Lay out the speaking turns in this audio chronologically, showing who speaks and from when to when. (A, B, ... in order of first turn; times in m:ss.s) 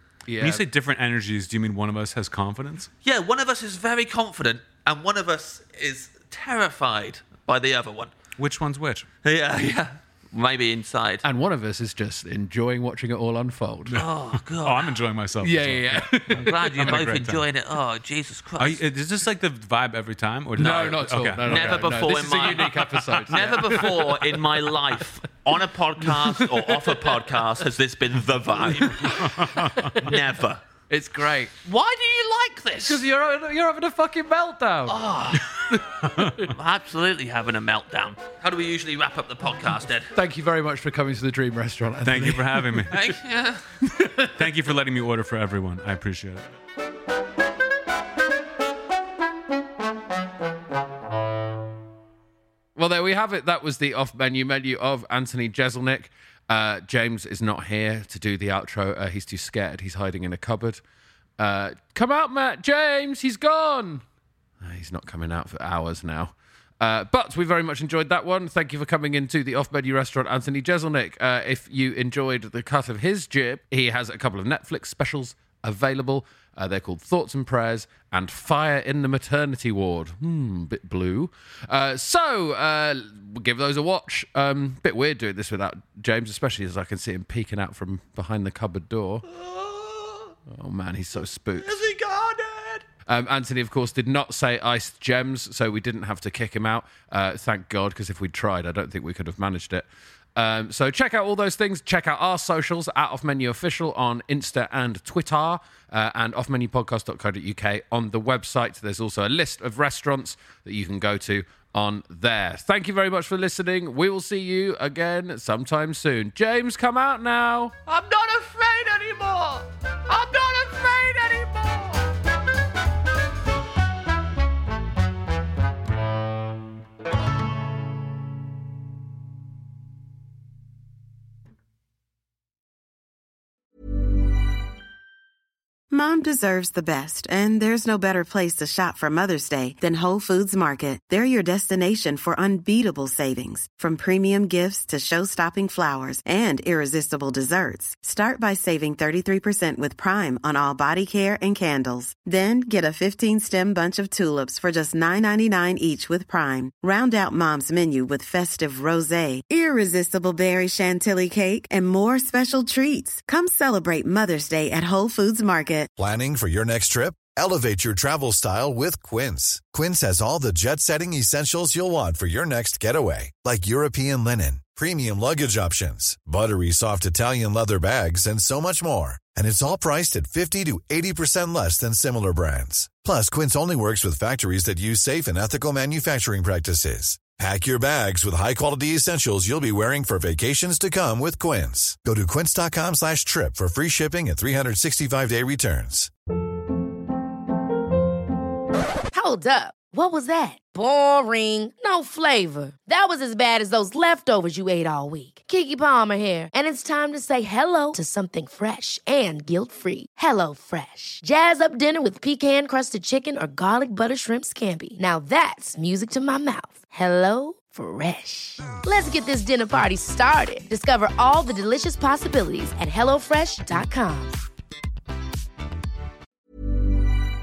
0:00.3-0:00.6 A
0:00.4-0:02.9 B
0:03.0-0:08.1 C
0:08.4-0:09.1 B
0:09.2-0:11.2 C
0:11.2-0:14.0 A
0:13.9-0:17.4 B
0:14.0-0:15.0 C
0:15.4-0:17.0 A
0:16.4-0:18.8 C
0:18.6-0:22.2 B
0:20.6-0:25.0 A
0:21.4-0:29.3 C
0:26.0-0:27.2 A
0:28.8-0:30.1 A
0:29.0-0:30.1 B
0:30.0-0:30.6 C
0:30.9-0:31.6 A
0:31.6-0:33.0 C
0:32.9-0:35.1 A
0:34.9-0:35.8 C
0:35.7-0:36.4 A
0:36.1-0:36.6 B
0:36.5-0:40.1 C
0:40.1-0:43.1 A
0:42.0-0:43.1 B
0:42.9-0:43.7 C
0:43.8-0:44.5 A
0:44.4-0:46.4 B
0:52.8-1:00.8 A
1:01.4-1:04.0 A
1:04.6-1:29.3 A
1:29.3-1:30.3 C
1:30.5-1:31.8 A
1:31.6-1:32.8 C
1:33.1-1:57.7 A
1:57.9-2:02.1 C
2:15.9-2:45.9 D
2:46.0-3:16.1 E
3:19.1-3:44.4 F